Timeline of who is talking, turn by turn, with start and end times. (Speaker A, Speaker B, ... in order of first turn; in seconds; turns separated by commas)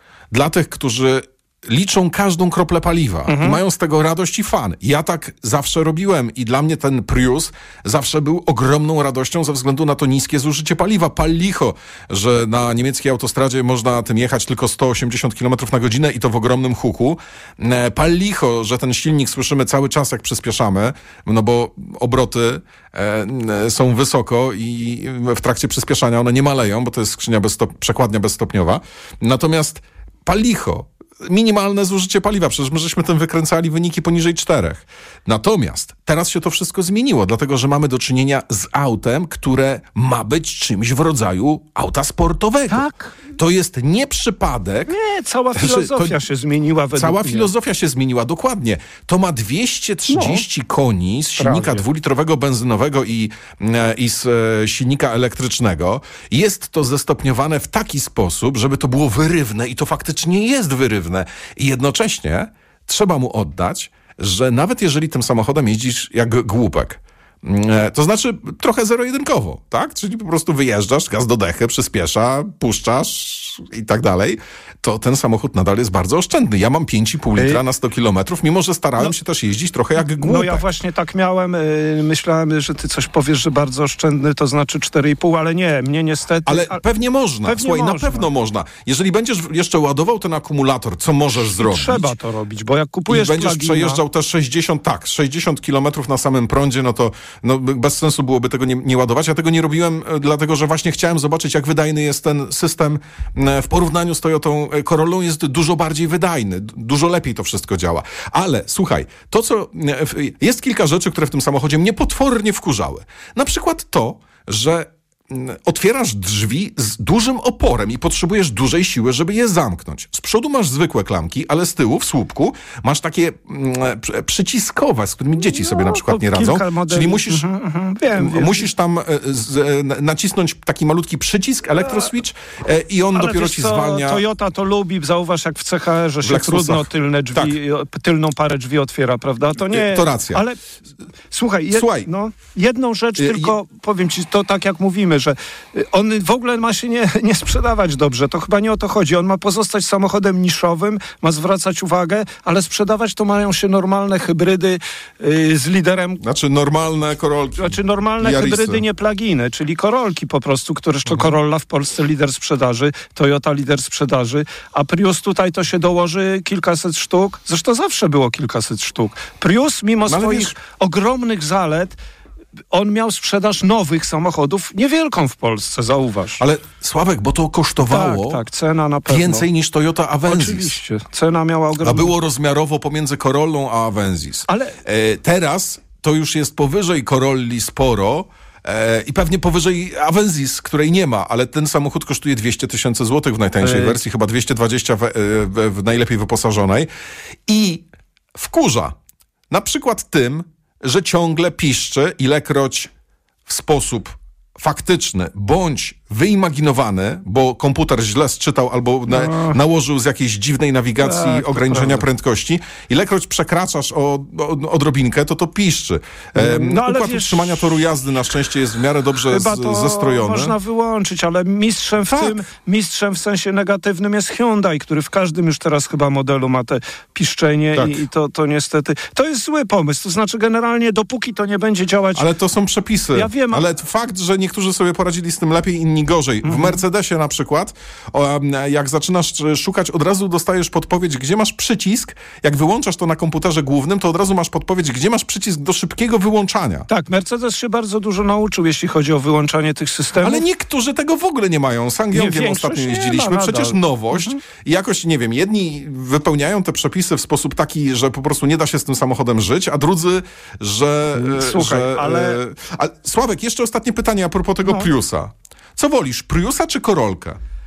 Speaker A: 0.3-44.9, Speaker B: 3.3-3.6, Speaker B: 42.7-43.1, Speaker B: 44.9-47.5, Speaker A: 45.5-46.2, Speaker A: 46.9-80.6, Speaker B: 50.1-50.4, Speaker B: 51.4-51.8, Speaker B: 77.3-77.6, Speaker B: 80.0-86.8, Speaker A: 86.5-92.1, Speaker B: 87.4-88.3, Speaker B: 91.4-94.0, Speaker A: 93.1-127.5, Speaker B: 125.4-128.7, Speaker A: 128.1-134.2, Speaker B: 133.1-140.6, Speaker A: 136.2-137.6, Speaker A: 139.6-140.4, Speaker B: 141.3-156.2, Speaker A: 141.7-142.1, Speaker A: 143.2-143.5, Speaker A: 156.2-158.8, Speaker B: 157.6-171.9, Speaker A: 170.1-170.5, Speaker B: 172.7-176.4, Speaker A: 176.4-178.4, Speaker B: 177.8-179.4, Speaker A: 179.1-180.8, Speaker B: 180.2-182.1, Speaker A: 181.8-196.9, Speaker B: 184.5-184.7, Speaker B: 193.6-194.0, Speaker A: 197.5-197.8, Speaker A: 198.3-198.9, Speaker A: 199.5-202.9, Speaker A: 203.5-220.5, Speaker B: 209.1-209.6, Speaker B: 211.0-212.1, Speaker B: 216.3-217.7, Speaker B: 219.3-232.3, Speaker A: 222.1-222.4, Speaker A: 227.7-228.0, Speaker A: 232.1-246.9, Speaker B: 233.1-233.6, Speaker B: 236.4-236.8, Speaker B: 246.9-250.4, Speaker A: 250.2-267.4, Speaker B: 252.1-254.4, Speaker B: 261.1-262.4, Speaker B: 264.6-264.9